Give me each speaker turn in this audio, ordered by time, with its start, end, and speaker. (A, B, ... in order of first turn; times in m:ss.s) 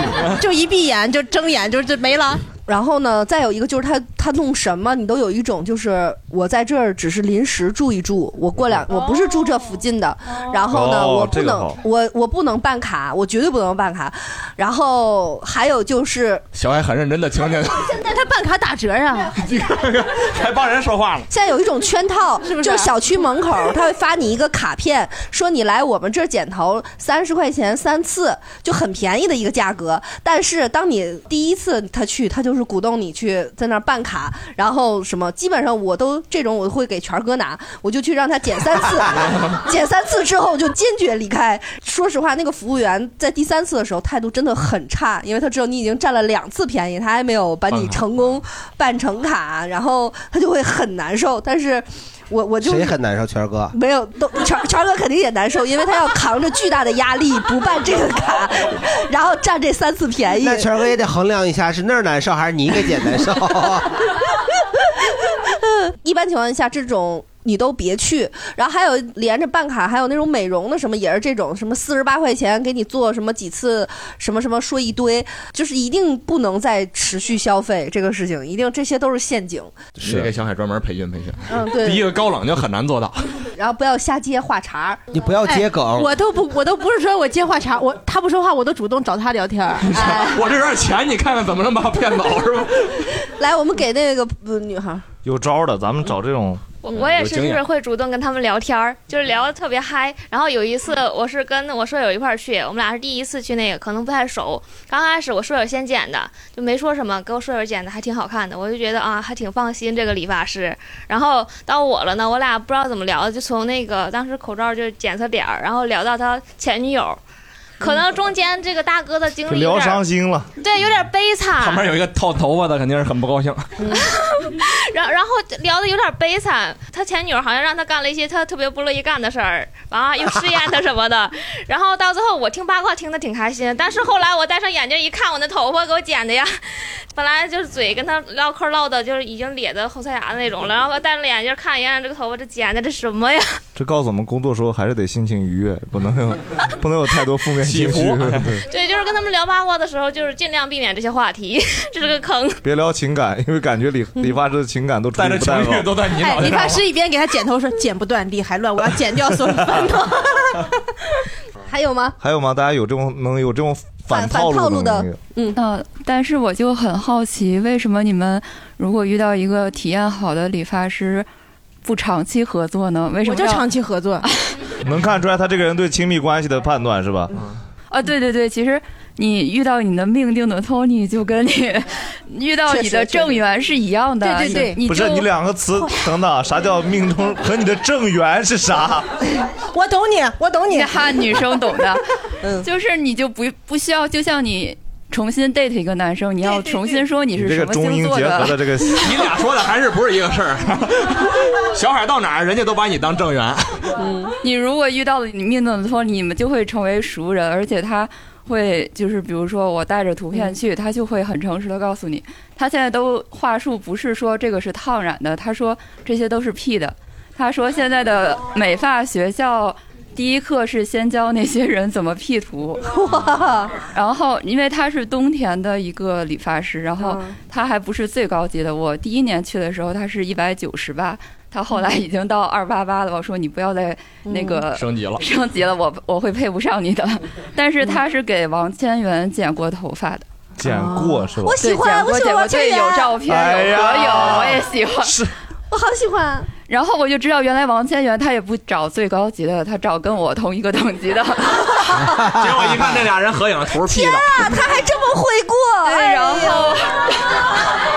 0:00.2-0:02.4 A
0:02.7-0:16.4 B
0:10.7-0:11.8 C
0:16.6-0:17.9 D
0:17.9-0:19.4 A
0:19.4-0:21.3 D
0:21.3-0:52.9 B
0:22.4-0:22.9 A
0:47.7-0:48.0 D
0:52.6-0:53.8 E
0:53.7-1:00.7 B
1:00.4-1:03.9 E
1:05.7-1:19.8 B
1:20.0-1:23.3 D
1:21.5-1:22.1 B
1:23.6-1:25.1 B
1:25.1-1:26.1 E
1:25.5-1:30.1 A
1:29.8-1:32.9 D
1:30.1-1:30.3 B
1:33.3-1:35.1 B
1:35.2-1:36.6 C
1:36.8-1:57.2 F
1:36.9-1:37.6 D
1:57.8-2:00.0 F
1:59.5-2:00.5 C
2:00.6-2:01.9 F
2:01.6-2:03.9 D
2:03.9-2:23.6 F
2:23.8-2:28.6 C
2:27.6-2:28.6 D
2:28.7-2:32.6 F
2:32.6-2:35.9 C
2:35.2-2:36.8 D
2:36.2-2:40.6 A
2:41.7-2:42.2 B
2:42.2-2:45.2 C
2:44.1-2:45.6 B
2:45.6-2:51.3 G
2:51.8-2:53.7 G
2:53.2-2:54.3 A
2:54.8-2:57.4 C
2:57.9-3:05.3 G
3:02.7-3:03.4 A
3:04.2-3:04.8 A
3:04.8-3:09.1 C
3:09.7-3:11.5 A
3:10.7-3:12.0 G
3:12.6-3:18.7 G
3:17.3-3:19.2 C
3:19.0-3:23.8 D
3:24.0-3:24.3 B
3:24.4-3:42.9 G
3:42.9-3:43.8 B
3:43.9-4:00.3 G
3:47.0-3:47.3 B
3:54.7-3:55.2 D
4:00.6-4:01.6 C
4:00.8-4:03.1 A
4:01.5-4:05.2 G
4:03.3-4:05.3 C
4:05.7-4:06.5 B
4:06.7-4:11.8 G
4:12.3-4:14.6 D
4:13.9-4:16.7 B
4:15.8-4:17.1 G